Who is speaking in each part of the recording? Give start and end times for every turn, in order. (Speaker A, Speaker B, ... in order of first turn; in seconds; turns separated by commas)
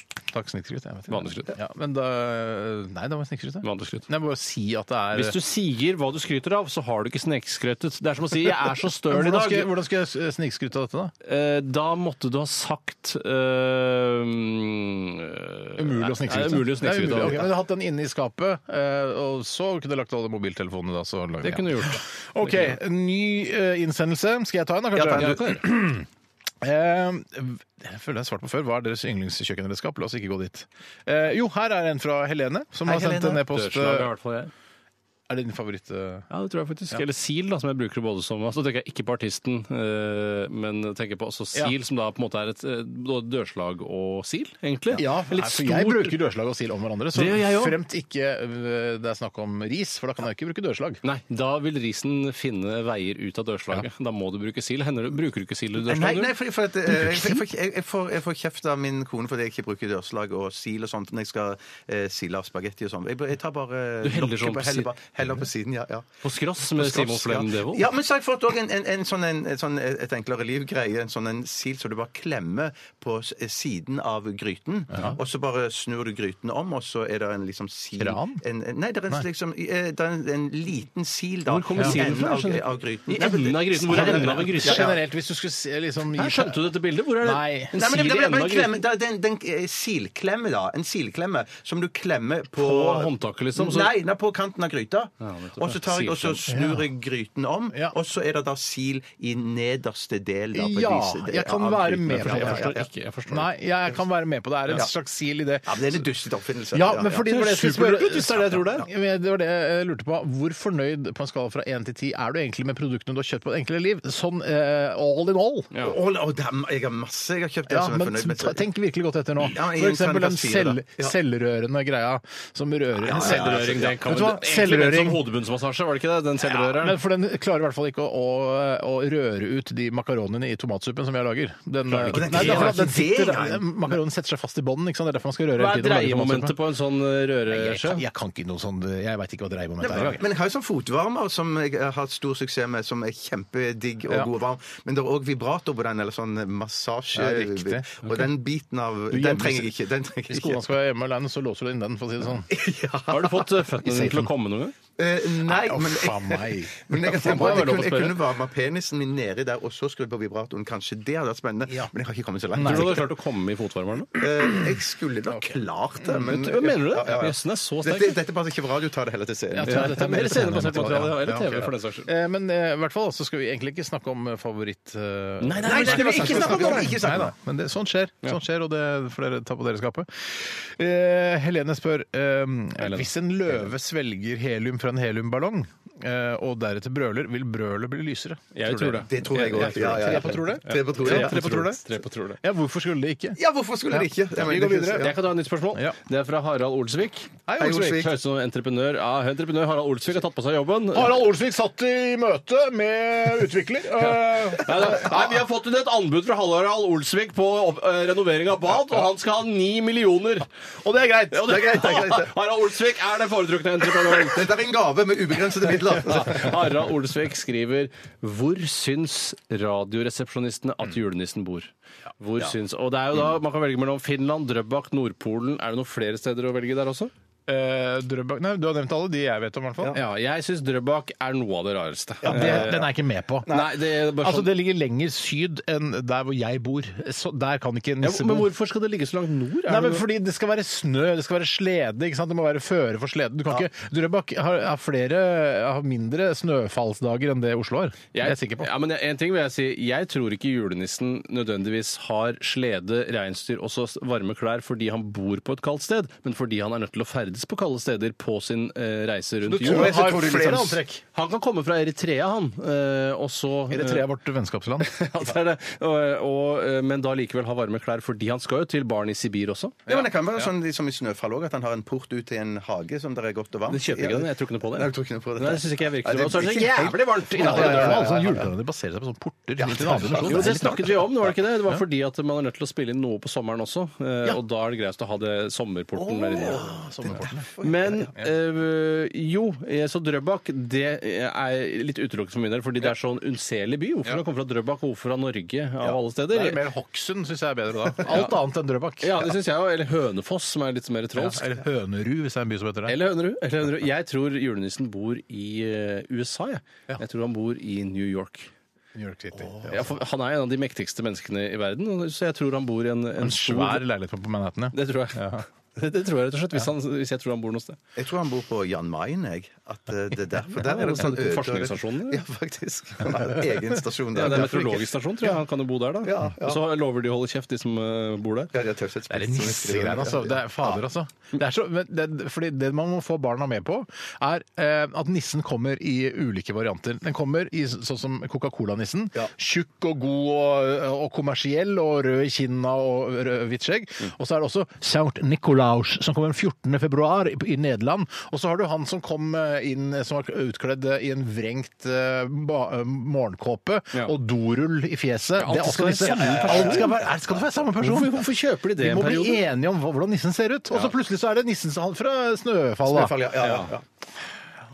Speaker A: 0.3-5.3, Speaker B: 1.1-1.5, Speaker B: 3.6-4.0, Speaker B: 5.1-9.7, Speaker A: 8.4-11.1, Speaker B: 11.2-17.5, Speaker A: 15.8-26.1, Speaker B: 21.4-22.8, Speaker C: 24.9-25.4, Speaker B: 25.0-25.6, Speaker A: 26.6-34.1, Speaker B: 32.9-34.5, Speaker A: 35.3-36.3, Speaker B: 36.3-46.2, Speaker A: 44.9-51.0, Speaker B: 47.1-47.8, Speaker B: 51.0-56.3, Speaker C: 55.8-66.1, Speaker A: 56.9-57.4, Speaker B: 64.0-64.9, Speaker B: 66.2-67.9, Speaker C: 66.7-85.0, Speaker A: 78.0-78.4, Speaker B: 81.5-84.9, Speaker A: 83.9-87.7, Speaker B: 86.2-88.8, Speaker C: 87.7-102.9, Speaker B: 92.6-93.9, Speaker B: 95.2-96.4, Speaker A: 96.5-96.9, Speaker A: 100.5-106.0, Speaker B: 102.1-103.5, Speaker C: 105.7-107.3, Speaker A: 106.7-115.7, Speaker B: 107.2-108.8, Speaker C: 115.8-118.6, Speaker A: 117.7-125.2, Speaker C: 119.4-121.1, Speaker C: 123.0-124.0, Speaker B: 123.1-127.0, Speaker A: 126.6-136.6, Speaker B: 131.9-132.8, Speaker C: 132.1-133.8, Speaker B: 135.6-138.0, Speaker A: 137.5-140.2, Speaker C: 139.8-150.6, Speaker A: 147.1-148.2, Speaker A: 149.1-149.7, Speaker A: 150.3-152.5, Speaker C: 152.5-153.5, Speaker B: 153.1-154.7, Speaker A: 153.8-154.3, Speaker C: 155.0-163.1, Speaker A: 155.4-157.9, Speaker B: 157.1-158.2, Speaker A: 162.5-163.1, Speaker B: 162.6-164.1, Speaker C: 164.1-170.1, Speaker A: 165.3-166.2, Speaker B: 166.1-168.2, Speaker A: 169.5-191.8, Speaker B: 169.6-172.1, Speaker B: 175.4-177.0, Speaker C: 175.6-177.3, Speaker B: 182.8-183.1, Speaker B: 188.5-192.4, Speaker C: 189.1-191.5, Speaker A: 192.4-195.1, Speaker C: 193.4-195.1, Speaker B: 195.0-201.1, Speaker A: 197.5-198.1, Speaker C: 197.6-198.1, Speaker A: 200.9-205.3, Speaker B: 204.0-210.5, Speaker A: 210.8-211.6, Speaker B: 211.3-214.5, Speaker C: 211.4-212.3, Speaker C: 213.9-216.6, Speaker B: 216.1-227.1, Speaker A: 227.5-230.0, Speaker B: 229.9-232.9, Speaker C: 232.2-232.8, Speaker A: 232.2-238.5, Speaker B: 233.4-234.5, Speaker B: 238.0-240.0, Speaker A: 239.7-248.7, Speaker B: 248.1-260.1, Speaker A: 259.4-261.0, Speaker C: 259.6-260.8, Speaker B: 261.1-264.1, Speaker A: 263.7-264.9, Speaker B: 264.8-269.9, Speaker C: 269.9-278.5, Speaker B: 273.7-278.2, Speaker A: 277.3-281.1, Speaker C: 279.6-280.8, Speaker B: 280.2-286.7, Speaker C: 286.1-288.1, Speaker A: 286.2-287.4, Speaker B: 287.6-296.6, Speaker A: 296.3-299.3, Speaker B: 298.0-298.4, Speaker B: 299.0-301.5, Speaker A: 301.1-303.0, Speaker B: 302.9-308.5, Speaker A: 308.9-309.9, Speaker B: 309.6-313.8, Speaker A: 313.2-315.4, Speaker B: 314.7-317.8, Speaker C: 317.9-324.9, Speaker B: 320.6-322.2, Speaker B: 324.1-328.5, Speaker C: 326.0-326.6, Speaker C: 328.5-330.8, Speaker A: 329.1-363.3, Speaker B: 355.4-356.9, Speaker C: 356.0-357.5, Speaker B: 357.8-359.4, Speaker C: 362.9-363.8, Speaker B: 363.4-363.7